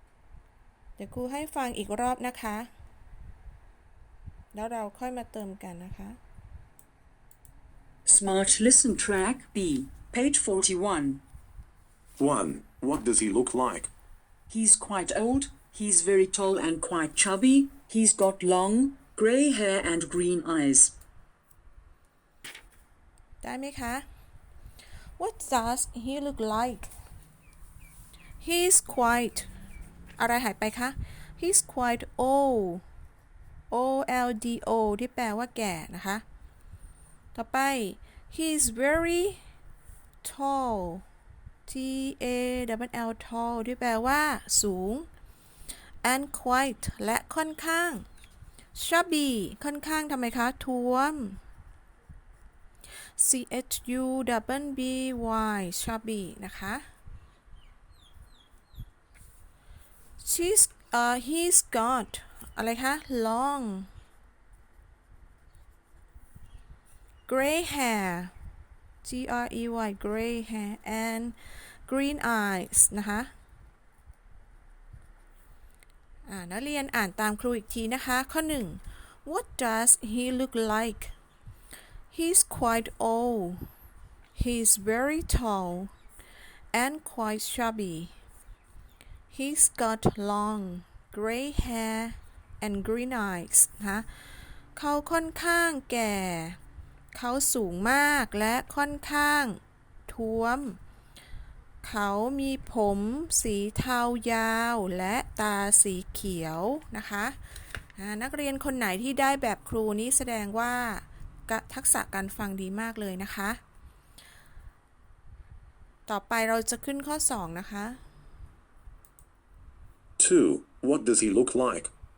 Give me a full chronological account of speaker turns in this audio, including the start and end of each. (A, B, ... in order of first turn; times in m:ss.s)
0:01.0-0:02.7 A
0:04.5-0:06.2 A
0:08.1-0:11.2 B
0:12.2-0:13.9 C
0:14.5-0:21.0 B
0:23.4-0:24.1 A
0:25.2-0:26.9 A
0:28.4-0:29.5 A
0:30.2-0:32.8 A
0:33.7-0:36.2 A
0:37.3-0:39.4 A
0:40.2-0:41.0 A
0:41.7-0:45.1 A
0:46.0-0:48.1 A
0:48.7-0:51.4 A
0:53.2-0:56.9 A
1:00.2-1:03.9 A
1:07.3-1:08.3 A
1:09.0-1:13.3 A
1:16.3-1:21.1 A
1:22.1-1:23.7 A
1:24.4-1:25.9 A
1:26.7-1:28.1 A
1:29.3-1:34.1 A
1:34.8-1:36.6 A
1:37.1-1:40.8 A
1:41.8-1:47.4 A
1:48.0-1:53.6 A
1:56.1-1:58.0 A
2:00.2-2:01.9 C